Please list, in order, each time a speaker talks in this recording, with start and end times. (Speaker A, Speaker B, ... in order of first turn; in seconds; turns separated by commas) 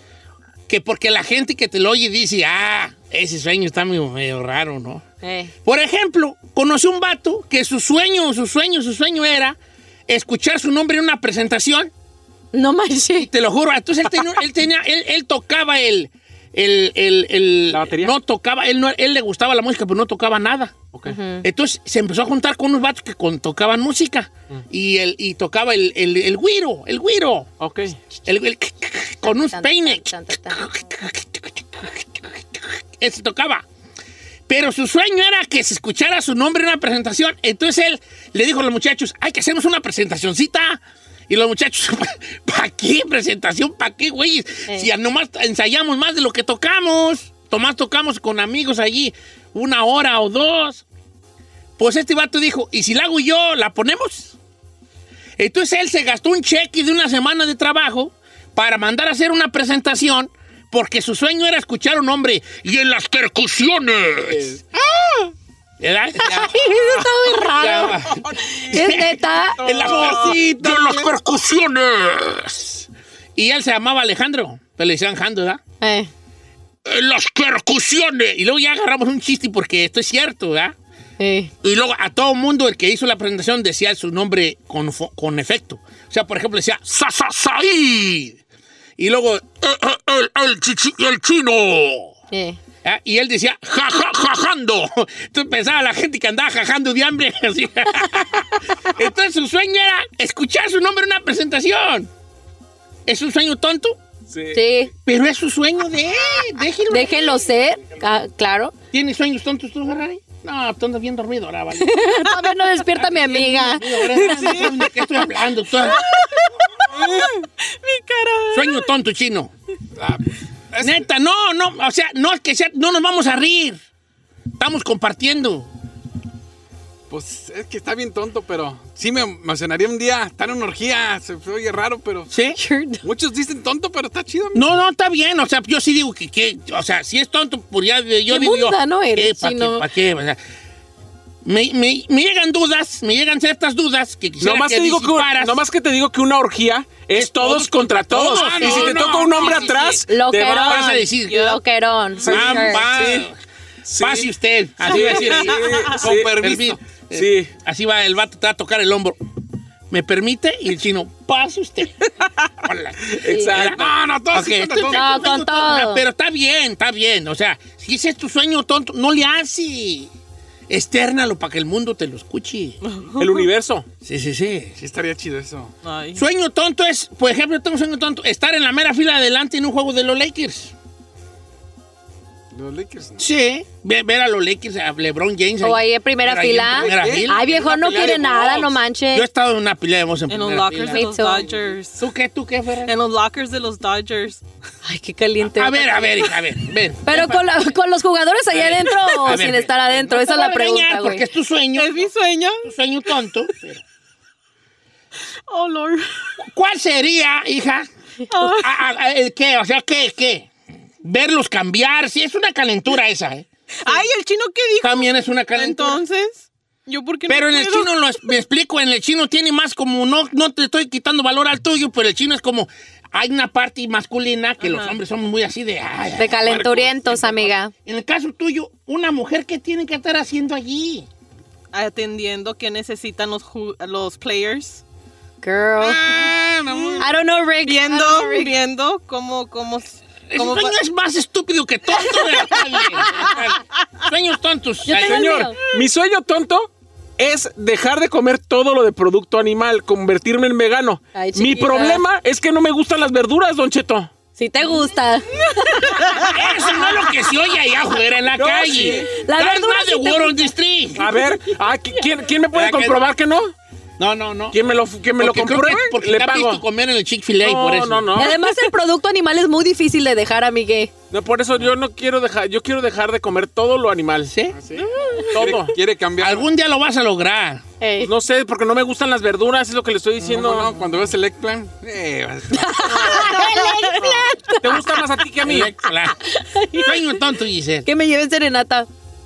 Speaker A: 0.7-5.0, Speaker B: 5.2-5.5, Speaker A: 5.7-9.6, Speaker A: 10.1-11.9, Speaker B: 12.5-13.3, Speaker A: 13.2-20.8, Speaker C: 17.7-18.1, Speaker B: 21.1-21.5, Speaker A: 21.4-27.5, Speaker C: 27.6-28.0, Speaker A: 28.3-33.6, Speaker B: 29.2-30.6, Speaker A: 34.5-50.9, Speaker A: 51.8-54.4, Speaker A: 55.4-64.5, Speaker A: 65.8-75.6, Speaker B: 66.2-68.0, Speaker C: 67.7-68.9, Speaker B: 68.7-69.6, Speaker C: 69.6-70.4, Speaker B: 75.8-76.1, Speaker A: 76.8-80.8, Speaker B: 81.2-81.5, Speaker A: 81.6-88.4, Speaker A: 89.0-92.1, Speaker B: 92.3-92.6, Speaker A: 92.8-102.1, Speaker A: 103.1-104.0, Speaker C: 104.3-104.6, Speaker B: 104.5-104.9, Speaker A: 105.1-107.5, Speaker B: 106.9-108.7, Speaker A: 108.9-112.1, Speaker B: 111.8-114.7, Speaker A: 112.9-116.0, Speaker D: 114.4-114.8, Speaker D: 116.1-118.9, Speaker A: 118.5-119.5, Speaker E: 120.0-121.1, Speaker A: 120.8-123.8, Speaker A: 124.6-125.7, Speaker E: 127.1-132.3, Speaker A: 132.3-132.6, Speaker B: 132.6-133.0, Speaker E: 133.0-134.7, Speaker A: 134.5-140.4, Speaker B: 138.3-139.9, Speaker A: 141.4-145.6, Speaker C: 144.4-150.9, Speaker A: 147.1-150.0, Speaker E: 148.2-149.8, Speaker B: 150.1-152.8, Speaker A: 150.7-151.5, Speaker D: 151.3-151.6, Speaker A: 152.2-153.4, Speaker C: 152.3-153.3, Speaker C: 153.9-154.3, Speaker A: 154.0-159.2, Speaker C: 154.8-156.4, Speaker D: 154.9-155.5, Speaker E: 154.9-156.8, Speaker C: 157.1-157.5, Speaker A: 159.9-162.1, Speaker A: 162.6-170.1, Speaker C: 163.1-163.9, Speaker B: 163.3-163.6, Speaker E: 163.7-165.3, Speaker B: 164.9-166.0, Speaker A: 170.7-172.8, Speaker D: 172.8-173.5, Speaker C: 173.2-173.9, Speaker A: 174.0-174.8, Speaker E: 174.8-175.7, Speaker D: 175.8-176.2, Speaker A: 176.2-180.7, Speaker E: 182.5-183.2, Speaker A: 183.2-187.4, Speaker B: 185.6-189.3, Speaker E: 186.6-188.7, Speaker A: 189.1-191.1, Speaker D: 190.3-192.1, Speaker B: 190.9-191.5, Speaker A: 192.0-192.9, Speaker D: 192.8-194.4, Speaker B: 194.8-196.3, Speaker A: 195.4-197.5, Speaker B: 197.1-201.2, Speaker A: 198.6-202.1, Speaker D: 201.7-202.7, Speaker A: 202.6-203.8, Speaker D: 205.5-206.3, Speaker A: 206.4-207.9, Speaker D: 208.3-208.7, Speaker A: 208.6-210.5, Speaker A: 211.0-214.1, Speaker D: 213.8-218.0, Speaker A: 214.8-216.0, Speaker A: 217.3-226.8, Speaker D: 224.6-225.0, Speaker B: 226.2-227.7, Speaker E: 226.5-227.1, Speaker A: 227.8-231.1, Speaker D: 231.7-234.8, Speaker B: 235.4-236.3, Speaker E: 235.8-237.1, Speaker D: 236.7-237.0, Speaker B: 237.0-238.5, Speaker D: 237.6-240.8, Speaker A: 240.3-245.3, Speaker D: 242.1-243.3, Speaker B: 244.8-245.6, Speaker C: 245.0-254.1, Speaker B: 251.2-252.0, Speaker B: 254.4-256.3, Speaker D: 255.9-256.2, Speaker A: 256.3-261.1, Speaker C: 258.4-259.1, Speaker B: 258.9-260.5, Speaker C: 261.0-263.5, Speaker A: 262.5-263.0, Speaker A: 264.0-264.6, Speaker C: 264.5-266.6, Speaker A: 265.2-268.3, Speaker C: 267.4-268.3, Speaker B: 268.2-270.9, Speaker C: 271.1-274.3, Speaker A: 274.3-274.6, Speaker E: 274.5-276.5, Speaker C: 275.3-275.7, Speaker A: 276.2-277.6, Speaker B: 277.8-278.1, Speaker C: 278.0-280.7, Speaker E: 280.2-282.9, Speaker B: 282.5-285.0, Speaker D: 282.9-284.3, Speaker C: 284.6-285.7, Speaker A: 285.4-286.2, Speaker B: 286.2-286.9, Speaker A: 286.8-287.9, Speaker B: 287.9-288.9